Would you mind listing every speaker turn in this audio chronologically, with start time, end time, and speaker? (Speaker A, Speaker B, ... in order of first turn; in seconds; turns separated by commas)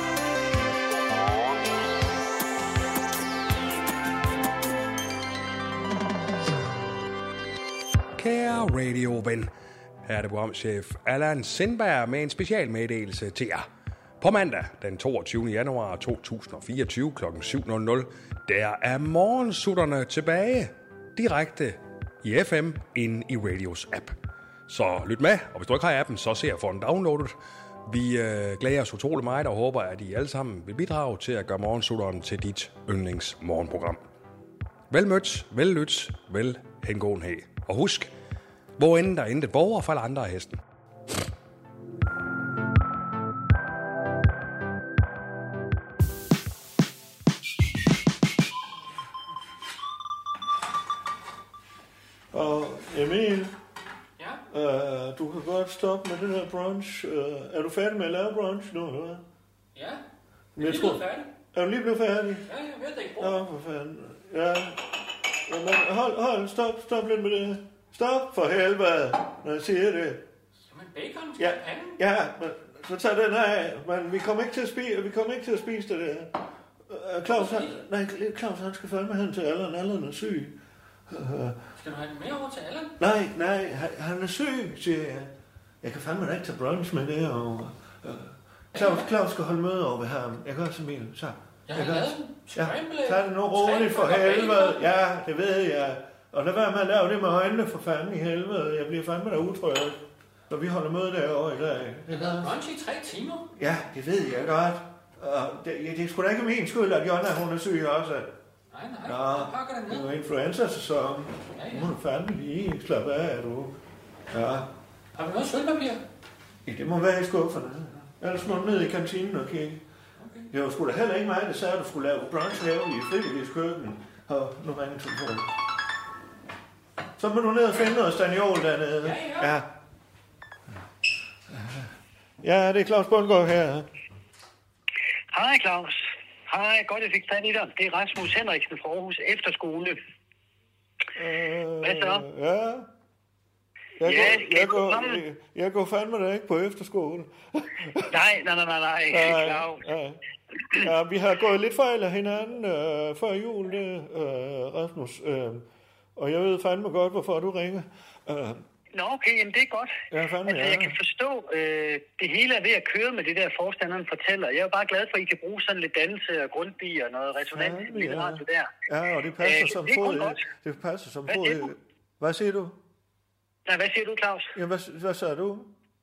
Speaker A: 1.3-1.6, Speaker A: 8.2-9.5, Speaker A: 10.1-13.7, Speaker A: 14.2-24.1, Speaker A: 24.7-34.0, Speaker A: 34.9-38.1, Speaker A: 38.8-40.6, Speaker B: 52.3-53.6, Speaker B: 54.5-59.2, Speaker C: 59.8-60.0, Speaker B: 60.6-62.5, Speaker C: 60.6-61.3, Speaker C: 62.5-63.4, Speaker B: 63.2-64.9, Speaker B: 65.5-70.2, Speaker C: 70.7-72.0, Speaker B: 71.4-80.5, Speaker C: 77.3-77.8, Speaker B: 81.1-81.6, Speaker C: 81.8-82.9, Speaker B: 83.0-102.6, Speaker C: 91.7-94.8, Speaker C: 102.1-103.5, Speaker B: 103.5-108.3, Speaker C: 108.7-110.1, Speaker B: 109.0-113.8, Speaker C: 111.6-111.9, Speaker B: 114.3-114.7, Speaker C: 115.2-116.0, Speaker B: 116.7-119.8, Speaker C: 120.2-120.5, Speaker B: 120.5-125.6, Speaker B: 127.2-129.8, Speaker C: 129.0-129.5, Speaker B: 131.5-131.9, Speaker B: 132.4-133.9, Speaker D: 135.3-140.0, Speaker B: 141.2-142.9, Speaker D: 141.8-142.2, Speaker B: 144.0-148.2, Speaker D: 144.0-145.2, Speaker D: 148.1-149.8, Speaker B: 149.1-155.7, Speaker B: 156.2-158.6, Speaker D: 158.9-168.7, Speaker B: 160.1-161.0, Speaker B: 167.5-172.8, Speaker D: 169.4-170.5, Speaker D: 171.3-171.7, Speaker D: 173.7-174.5, Speaker B: 174.6-175.7